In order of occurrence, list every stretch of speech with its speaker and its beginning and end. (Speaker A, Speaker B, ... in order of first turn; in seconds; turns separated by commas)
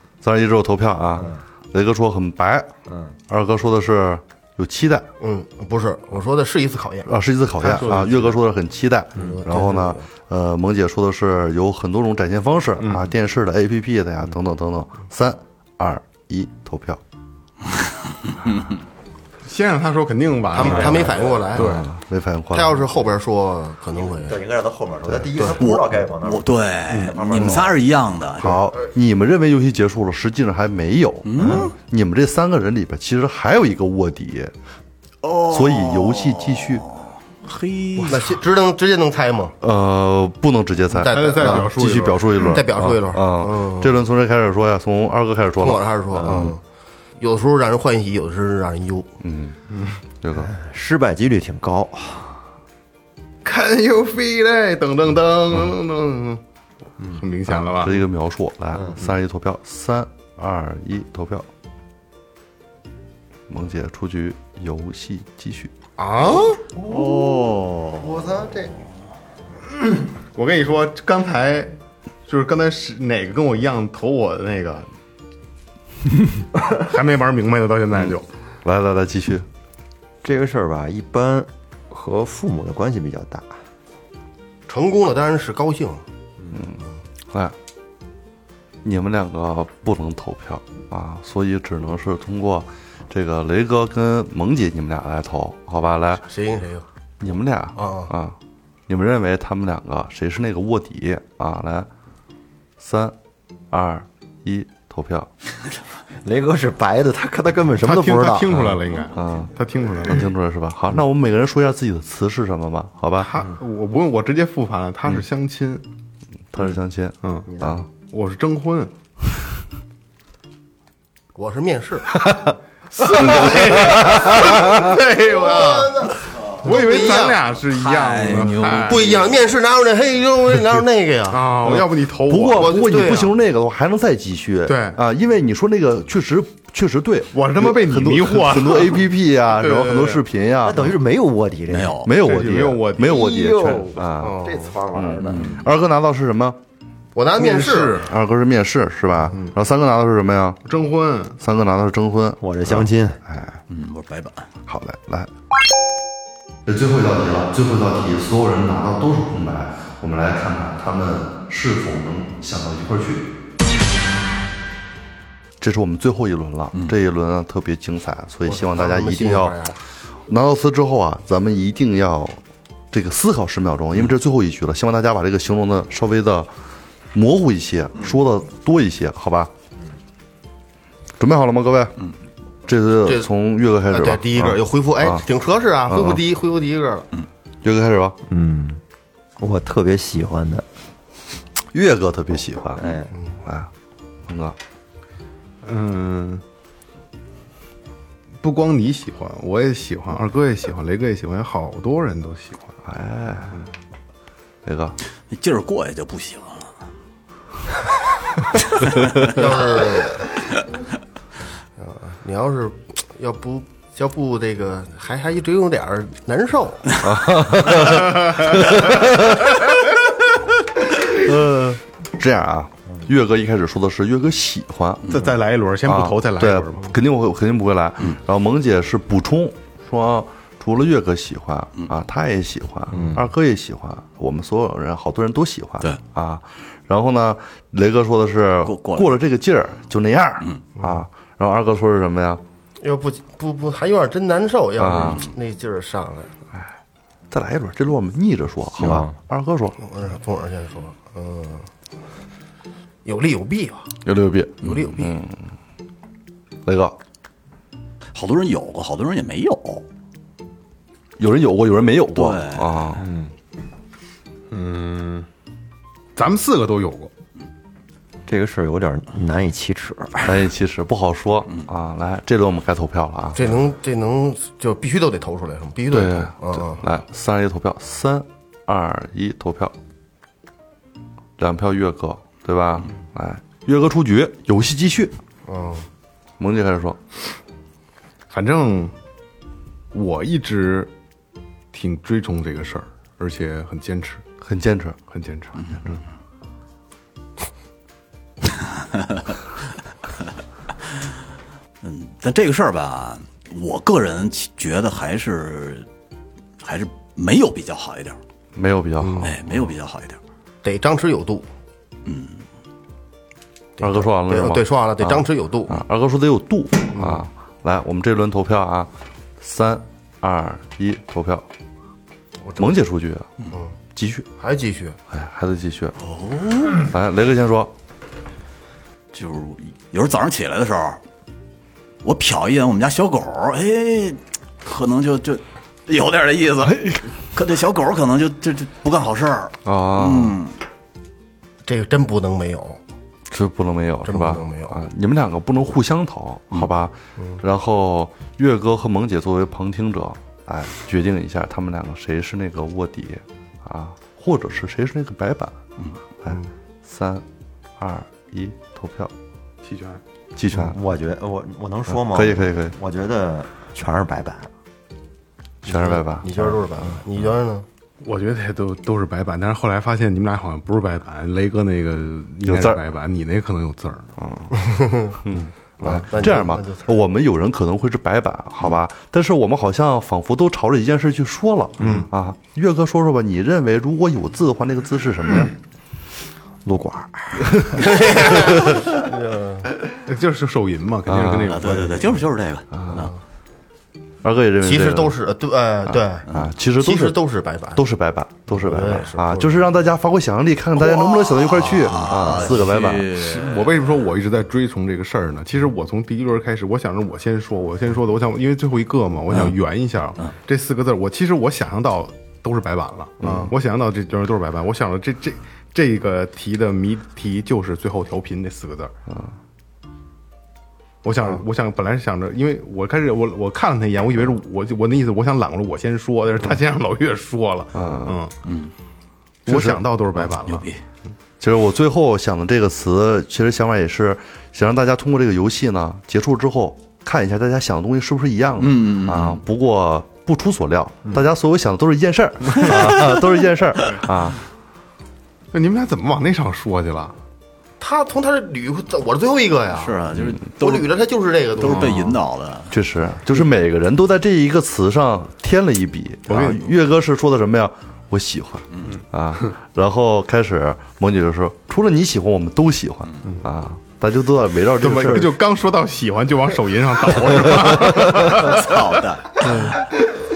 Speaker A: 0.2-2.7, Speaker B: 2.9-3.1, Speaker A: 3.3-5.1, Speaker C: 5.2-7.1, Speaker A: 7.0-17.0, Speaker D: 7.6-8.3, Speaker C: 9.1-10.1, Speaker D: 12.8-13.0, Speaker D: 19.4-21.9, Speaker C: 20.5-21.7, Speaker A: 21.5-22.8, Speaker C: 22.5-24.4, Speaker B: 24.1-27.7, Speaker A: 25.1-25.5, Speaker E: 25.6-28.6, Speaker A: 27.3-27.6, Speaker A: 28.4-34.5, Speaker E: 31.2-31.7, Speaker B: 31.4-31.7, Speaker E: 35.2-38.3, Speaker A: 35.5-36.8, Speaker C: 38.1-39.5, Speaker A: 39.6-46.5, Speaker C: 40.9-41.7, Speaker D: 41.1-42.4, Speaker C: 42.3-43.9, Speaker C: 45.6-46.6, Speaker B: 46.1-46.5, Speaker C: 47.2-49.1, Speaker A: 49.2-49.6, Speaker A: 50.2-50.5, Speaker B: 50.4-52.4, Speaker D: 53.4-56.4, Speaker D: 57.0-57.9, Speaker A: 57.5-61.5, Speaker A: 63.5-65.7, Speaker C: 66.0-66.6, Speaker E: 66.8-68.3, Speaker B: 66.8-67.4, Speaker B: 68.0-68.8, Speaker D: 70.3-74.9, Speaker D: 76.6-78.3, Speaker A: 78.6-79.5, Speaker B: 80.2-83.5, Speaker C: 84.7-86.0, Speaker A: 86.5-86.8, Speaker A: 88.8-96.2, Speaker C: 96.2-96.8, Speaker A: 97.2-98.3, Speaker C: 97.7-98.1, Speaker A: 98.9-101.9, Speaker A: 102.8-103.1, Speaker A: 103.7-105.3, Speaker B: 106.2-108.6, Speaker D: 107.8-110.3, Speaker A: 108.5-109.5, Speaker A: 110.1-113.3, Speaker D: 113.2-115.8, Speaker A: 116.5-117.8, Speaker D: 117.2-118.9, Speaker B: 117.5-117.7, Speaker C: 121.3-122.2, Speaker D: 122.1-126.0, Speaker C: 123.3-127.4, Speaker D: 126.6-129.0, Speaker E: 127.7-129.3, Speaker C: 128.8-131.6, Speaker D: 131.3-132.8, Speaker A: 131.7-140.9, Speaker C: 132.5-133.3, Speaker D: 134.7-135.0, Speaker D: 137.3-139.0, Speaker D: 139.6-140.2, Speaker B: 140.6-142.0, Speaker E: 141.7-142.1, Speaker A: 142.0-144.3, Speaker D: 142.2-143.7, Speaker B: 143.0-145.6, Speaker C: 144.2-144.8, Speaker A: 144.9-146.6, Speaker E: 145.2-145.6, Speaker C: 147.2-148.1, Speaker D: 147.4-148.1, Speaker A: 148.1-150.6, Speaker D: 150.6-151.4, Speaker A: 151.4-153.6, Speaker B: 152.4-153.2, Speaker E: 153.7-154.5, Speaker A: 154.7-155.3, Speaker A: 156.7-163.2, Speaker A: 165.6-169.6, Speaker C: 168.4-169.8, Speaker A: 170.3-172.4, Speaker A: 172.9-176.5, Speaker A: 177.1-179.5, Speaker A: 181.2-181.9, Speaker A: 182.7-185.2, Speaker C: 183.9-187.1, Speaker A: 185.9-186.2, Speaker A: 187.6-188.2, Speaker B: 188.3-188.8, Speaker B: 189.4-190.7, Speaker A: 191.7-193.7, Speaker B: 192.8-193.1, Speaker A: 194.3-194.6, Speaker D: 195.6-196.4, Speaker D: 198.4-202.8, Speaker A: 202.8-203.6, Speaker A: 204.6-205.0, Speaker E: 205.3-206.7, Speaker E: 208.8-209.2, Speaker C: 209.3-210.3, Speaker C: 211.8-216.9, Speaker A: 217.0-219.6, Speaker A: 221.1-225.0, Speaker D: 225.1-226.9, Speaker A: 225.8-242.4, Speaker B: 232.9-233.2, Speaker E: 238.6-239.1, Speaker C: 242.8-246.3, Speaker A: 244.8-245.2, Speaker A: 247.3-249.8, Speaker B: 248.7-249.1, Speaker C: 249.8-251.7, Speaker C: 253.0-253.9, Speaker A: 254.0-255.4, Speaker C: 254.6-255.1, Speaker A: 256.6-256.9, Speaker E: 258.1-259.8, Speaker A: 261.2-263.0, Speaker E: 262.1-262.8, Speaker D: 264.5-265.3, Speaker D: 266.1-267.1, Speaker B: 268.3-270.4, Speaker A: 270.2-273.5, Speaker C: 273.3-276.8, Speaker A: 275.9-279.7, Speaker A: 281.4-285.1, Speaker C: 285.4-285.9, Speaker A: 286.4-287.0, Speaker D: 288.3-288.9, Speaker D: 289.9-290.9, Speaker D: 291.7-294.2, Speaker A: 294.4-295.0, Speaker D: 295.1-296.0, Speaker E: 298.9-299.3, Speaker E: 301.8-305.9, Speaker E: 306.6-308.2, Speaker A: 308.5-309.3, Speaker C: 309.0-309.3, Speaker E: 309.2-310.2, Speaker C: 310.6-311.4, Speaker E: 312.1-312.4, Speaker C: 313.8-315.8, Speaker A: 313.8-321.4, Speaker C: 316.9-317.2, Speaker C: 322.4-322.7, Speaker A: 322.6-323.3, Speaker A: 323.9-324.3, Speaker C: 324.4-325.0, Speaker A: 325.1-325.9, Speaker E: 326.1-326.9, Speaker A: 326.9-327.7, Speaker E: 329.1-331.0, Speaker E: 332.0-340.5, Speaker A: 336.6-337.0, Speaker A: 339.6-340.4, Speaker C: 341.6-342.8, Speaker A: 343.3-355.6, Speaker C: 344.0-344.8, Speaker A: 356.2-357.2, Speaker A: 357.8-359.1, Speaker D: 359.6-360.0, Speaker A: 360.3-360.8, Speaker B: 360.5-364.5, Speaker A: 361.9-362.7, Speaker A: 365.6-366.5, Speaker C: 365.7-367.6, Speaker D: 368.0-374.1, Speaker A: 372.4-372.8, Speaker A: 374.2-374.7, Speaker C: 374.6-375.2, Speaker A: 375.2-385.5, Speaker C: 375.8-376.9, Speaker B: 386.6-387.9, Speaker C: 387.9-389.7, Speaker D: 389.9-392.2, Speaker A: 391.1-391.6, Speaker E: 391.4-393.1, Speaker A: 392.7-393.1, Speaker A: 394.2-395.1, Speaker C: 394.6-396.2, Speaker A: 395.9-397.2, Speaker C: 396.8-397.8, Speaker A: 397.8-403.1, Speaker C: 398.5-399.7, Speaker E: 401.4-403.7, Speaker D: 403.1-418.9, Speaker A: 413.2-413.5, Speaker A: 419.1-419.3, Speaker D: 421.0-428.3, Speaker A: 427.7-428.1, Speaker E: 428.4-428.7, Speaker D: 429.4-430.7, Speaker A: 429.5-429.8, Speaker E: 430.4-430.8, Speaker A: 431.4-444.4, Speaker E: 438.6-439.4, Speaker D: 445.5-447.1, Speaker C: 447.8-450.0, Speaker E: 449.7-450.9, Speaker C: 450.6-452.1, Speaker E: 451.6-452.7, Speaker A: 451.6-452.1, Speaker A: 452.7-465.4, Speaker D: 456.3-456.7, Speaker D: 464.8-469.9, Speaker E: 467.9-469.8